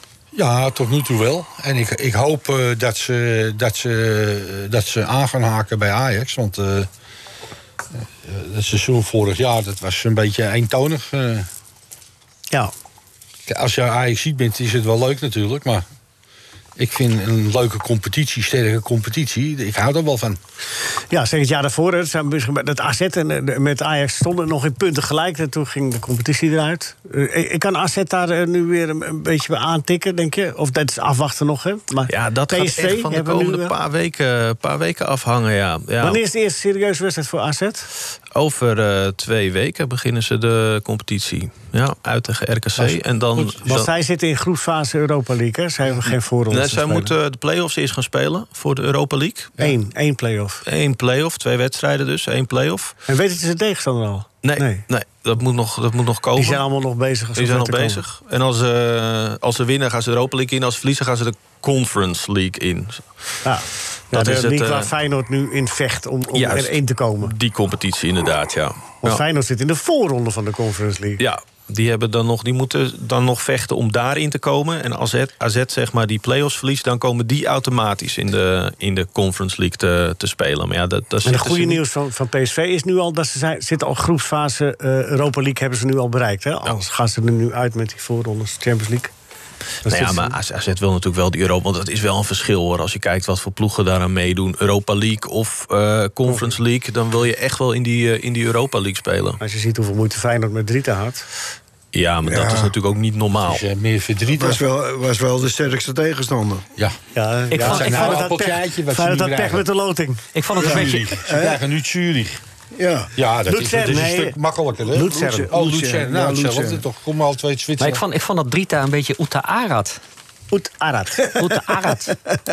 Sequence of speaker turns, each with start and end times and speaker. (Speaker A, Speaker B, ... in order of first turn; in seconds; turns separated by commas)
Speaker A: 0.3-6.9, Speaker A: 8.0-11.5, Speaker A: 13.5-15.8, Speaker A: 16.8-20.4, Speaker B: 21.1-33.7, Speaker C: 32.1-36.2, Speaker B: 36.0-37.9, Speaker C: 38.4-43.9, Speaker B: 43.4-47.1, Speaker C: 46.1-49.6, Speaker B: 49.6-50.6, Speaker C: 50.6-52.9, Speaker B: 53.1-54.8, Speaker C: 54.4-56.6, Speaker B: 56.4-58.0, Speaker C: 57.4-63.1, Speaker B: 63.4-67.3, Speaker C: 64.1-64.9, Speaker C: 66.3-69.2, Speaker B: 69.0-71.2, Speaker C: 71.2-81.8, Speaker B: 81.2-89.1, Speaker B: 89.8-90.4, Speaker C: 89.8-99.4, Speaker B: 99.4-101.3, Speaker C: 101.9-103.6, Speaker D: 102.2-102.8, Speaker A: 103.5-104.6, Speaker D: 104.3-106.7, Speaker B: 107.1-110.3, Speaker E: 107.5-108.3, Speaker A: 107.5-109.7, Speaker E: 110.3-111.1, Speaker A: 110.6-112.4, Speaker D: 110.6-111.6, Speaker D: 112.7-113.1, Speaker A: 113.2-118.0, Speaker B: 113.5-114.4, Speaker B: 114.9-115.5, Speaker D: 114.9-116.8, Speaker E: 117.8-120.0, Speaker B: 120.5-122.0, Speaker E: 121.3-122.1